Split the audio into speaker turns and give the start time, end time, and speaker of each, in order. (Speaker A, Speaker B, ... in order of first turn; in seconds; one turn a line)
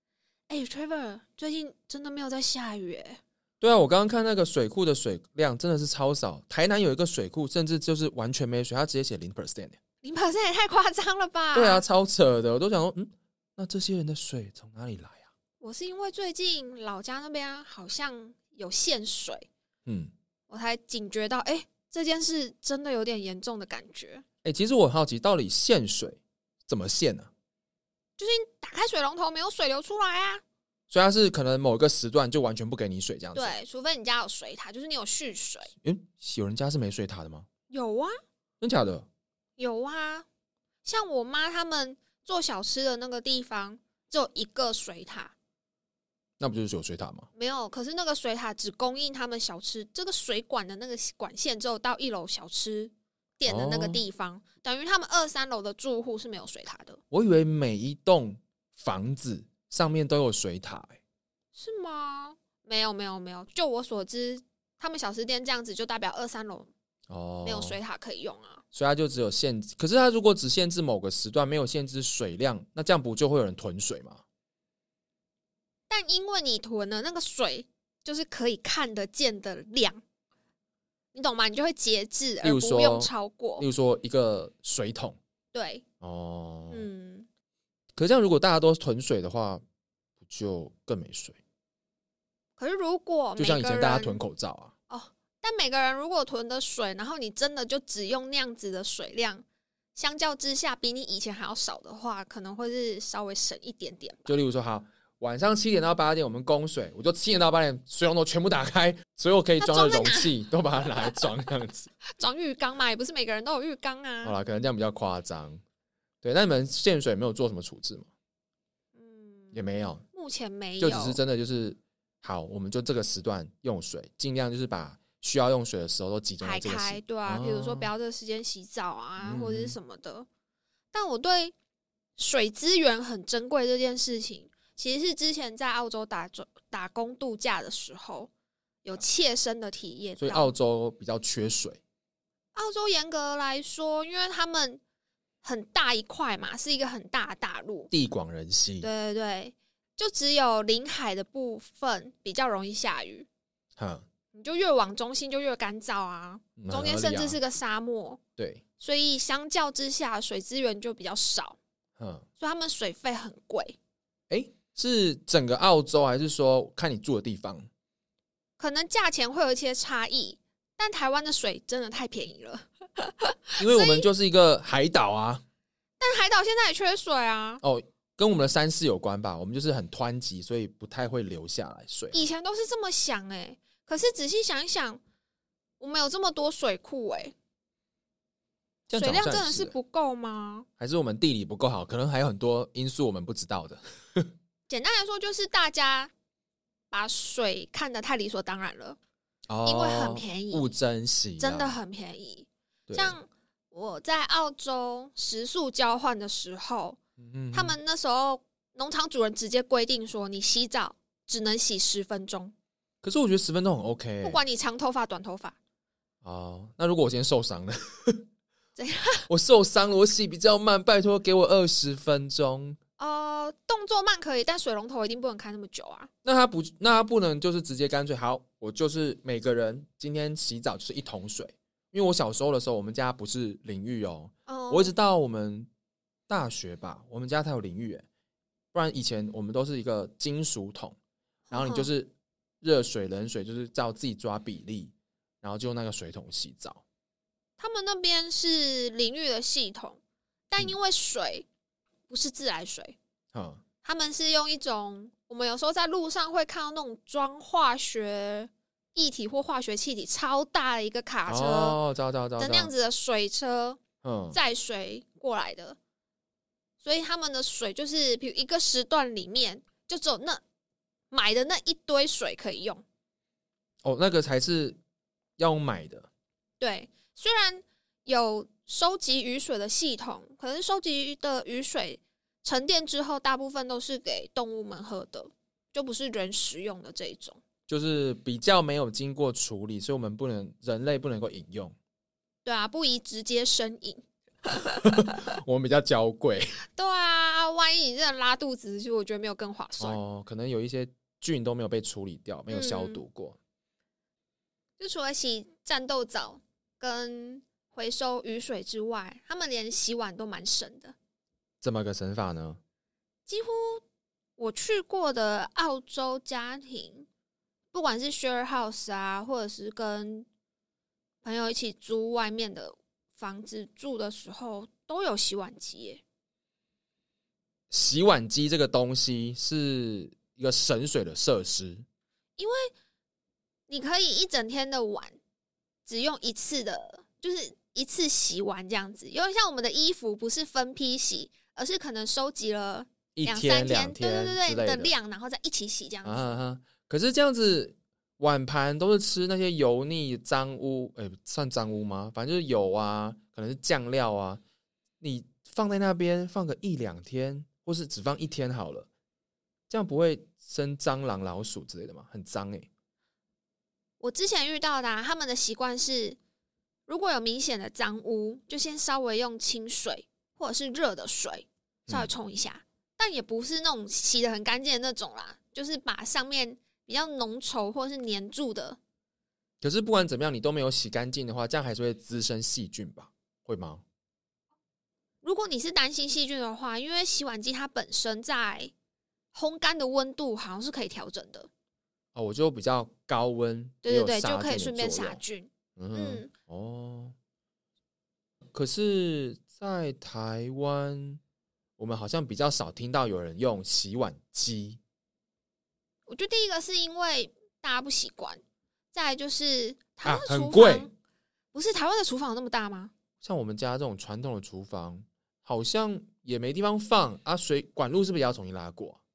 Speaker A: 0.5-3.2
Speaker B: 3.6-9.8
Speaker A: 10.0-11.8
Speaker B: 11.5-15.3
Speaker A: 15.6-19.5
Speaker B: 19.9-20.1
Speaker A: 20.5-24.2
Speaker B: 24.4-27.3
Speaker A: 28.2-30.4
Speaker B: 30.9-33.6
Speaker A: 33.3-35.7
Speaker B: 35.8-37.5
Speaker A: 37.7-38.1
Speaker B: 38.6-39.1
Speaker A: 39.6-40.2
Speaker A: 40.8-45.3
Speaker B: 46.4-47.3
Speaker A: 47.4-57.0
Speaker B: 53.5-54.0
Speaker B: 57.1-61.0
Speaker A: 61.5-66.7
Speaker B: 67.1-67.8
Speaker A: 67.4-68.6
Speaker B: 68.7-74.2
Speaker A: 75.9-80.0
Speaker A: 81.1-83.7
Speaker B: 82.4-85.2
Speaker A: 85.5-85.8
Speaker B: 86.0-86.8
Speaker A: 86.7-87.3
Speaker B: 88.0-89.6
Speaker B: 90.2-91.4
Speaker A: 92.6-94.2
Speaker B: 93.3-94.7
Speaker A: 94.9-99.4
Speaker A: 99.9-104.3
Speaker B: 104.3-111.9
Speaker A: 109.6-110.3
Speaker A: 112.1-114.3
Speaker B: 114.2-115.6
Speaker B: 116.2-118.1
Speaker A: 119.0-121.2
Speaker B: 119.5-120.0
Speaker B: 120.8-127.9
Speaker A: 126.4-130.3
Speaker B: 129.2-129.8
Speaker A: 130.9-131.5
Speaker A: 132.2-138.3
Speaker A: 138.8-140.5
Speaker B: 140.2-141.8
Speaker A: 142.5-144.8
Speaker A: 145.4-147.9
Speaker B: 147.9-148.9
Speaker A: 148.8-153.3
Speaker B: 153.8-154.1
Speaker A: 154.3-158.2
Speaker B: 156.6-157.4
Speaker A: 158.8-161.6
Speaker B: 162.0-162.2
Speaker A: 162.4-163.8
Speaker B: 164.3-167.7
Speaker A: 168.6-174.1
Speaker B: 173.6-175.4
Speaker A: 176.0-177.6
Speaker B: 177.6-182.3
Speaker A: 182.1-185.0
Speaker A: 185.8-187.3
Speaker B: 188.9-189.8
Speaker A: 188.9-190.7
Speaker B: 190.8-194.3
Speaker A: 194.7-196.1
Speaker A: 196.9-199.0
Speaker B: 199.5-201.8
Speaker A: 199.6-200.7
Speaker A: 201.4-207.0
Speaker B: 202.9-203.2
Speaker B: 207.2-207.8
Speaker A: 207.5-212.5
Speaker B: 213.0-214.4
Speaker A: 214.2-215.6
Speaker B: 216.2-218.2
Speaker A: 218.8-219.3
Speaker B: 219.3-222.8
Speaker A: 223.0-226.1
Speaker B: 226.2-235.7
Speaker A: 234.5-234.9
Speaker B: 236.3-238.0
Speaker B: 238.7-241.0
Speaker A: 241.5-241.9
Speaker B: 241.5-246.8
Speaker A: 247.6-251.5
Speaker A: 252.1-252.9
Speaker B: 253.3-253.6
Speaker A: 253.8-261.8
Speaker B: 261.3-262.7
Speaker A: 262.4-263.8
Speaker B: 264.0-264.4
Speaker A: 264.3-265.8
Speaker A: 266.8-270.4
Speaker A: 271.1-272.8
Speaker B: 273.8-274.8
Speaker B: 275.4-276.1
Speaker A: 276.6-287.4
Speaker B: 287.7-291.7
Speaker A: 292.4-295.2
Speaker B: 294.5-296.6
Speaker A: 296.7-300.0
Speaker B: 299.8-303.4
Speaker A: 302.5-303.0
Speaker A: 304.8-310.9
Speaker B: 311.6-312.6
Speaker A: 313.3-313.8
Speaker A: 314.4-317.1
Speaker A: 317.7-320.3
Speaker A: 321.2-326.0
Speaker B: 327.7-331.8
Speaker A: 332.4-332.7
Speaker A: 333.7-335.2
Speaker A: 335.9-346.3
Speaker B: 343.1-344.9
Speaker B: 346.0-354.4
Speaker B: 355.0-358.9
Speaker B: 359.7-362.7
Speaker A: 364.0-366.2
Speaker A: 366.9-378.8
Speaker B: 379.6-383.8
Speaker A: 385.2-388.7
Speaker A: 389.3-391.5
Speaker B: 392.1-395.2
Speaker A: 393.8-396.3
Speaker B: 395.8-397.1
Speaker B: 398.5-401.2
Speaker B: 401.8-404.8
Speaker A: 406.1-408.4
Speaker A: 408.9-410.9
Speaker B: 410.0-410.9
Speaker A: 411.5-412.9
Speaker B: 413.2-419.0